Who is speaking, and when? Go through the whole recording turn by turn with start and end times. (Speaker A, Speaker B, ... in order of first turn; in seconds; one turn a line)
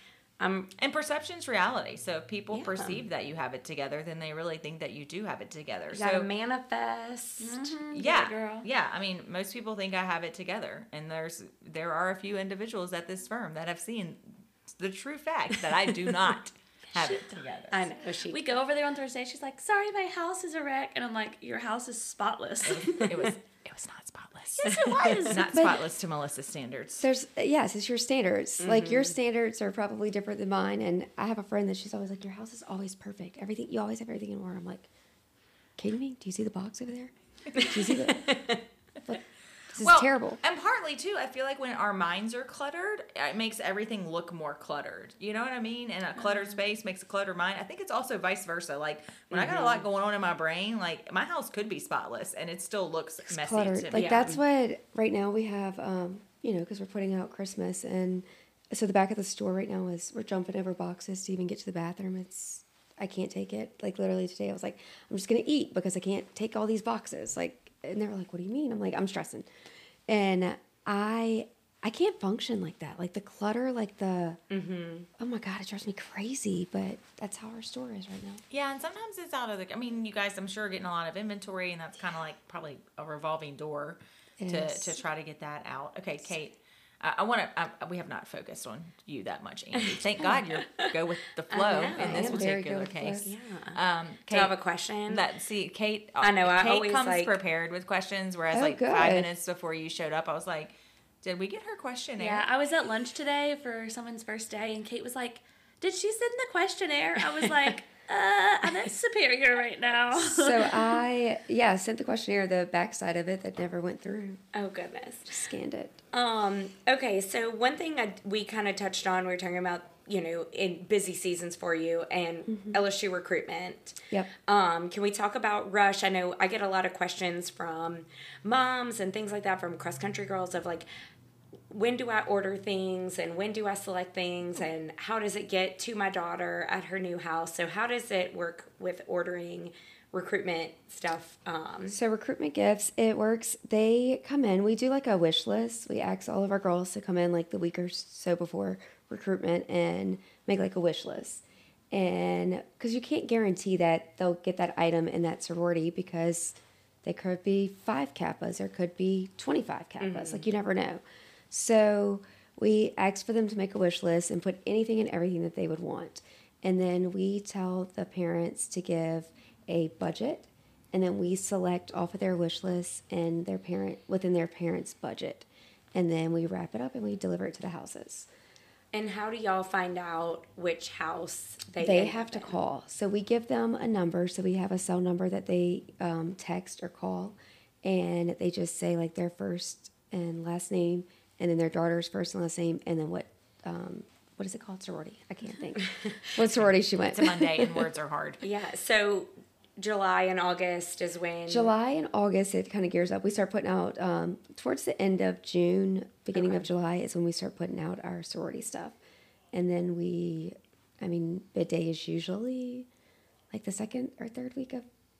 Speaker A: 0.4-0.7
Speaker B: 0.8-6.3
Speaker A: 2.5-3.0
Speaker A: 5.9-7.7
Speaker C: 7.4-8.7
Speaker B: 7.9-17.9
Speaker A: 17.0-18.4
Speaker C: 18.3-23.3
Speaker B: 22.6-27.1
Speaker C: 24.6-25.7
Speaker A: 24.6-25.2
Speaker D: 25.5-25.8
Speaker D: 27.0-34.9
Speaker A: 28.6-29.1
Speaker D: 35.8-38.4
Speaker A: 37.5-38.6
Speaker D: 39.7-40.4
Speaker B: 39.8-54.1
Speaker C: 46.2-46.5
Speaker A: 49.3-49.8
Speaker D: 53.3-69.5
Speaker A: 53.9-54.4
Speaker D: 70.1-74.4
Speaker A: 74.5-75.1
Speaker D: 75.2-78.4
Speaker B: 78.5-94.5
Speaker D: 84.4-85.0
Speaker A: 91.5-92.5
Speaker D: 91.9-93.3
Speaker A: 93.2-93.8
Speaker A: 94.3-95.2
Speaker B: 95.1-102.5
Speaker A: 96.2-97.3
Speaker D: 98.5-99.3
Speaker C: 102.2-111.0
Speaker D: 110.1-114.4
Speaker A: 114.5-115.4
Speaker D: 115.2-116.0
Speaker A: 116.1-130.9
Speaker D: 122.5-122.8
Speaker A: 131.7-142.0
Speaker D: 141.9-178.3
Speaker A: 160.0-160.5
Speaker A: 178.9-182.6
Speaker D: 181.8-197.9
Speaker A: 195.8-196.2
Speaker B: 197.0-198.4
Speaker A: 198.4-201.7
Speaker D: 201.5-208.9
Speaker A: 206.3-206.7
Speaker D: 209.5-212.9
Speaker D: 213.5-214.8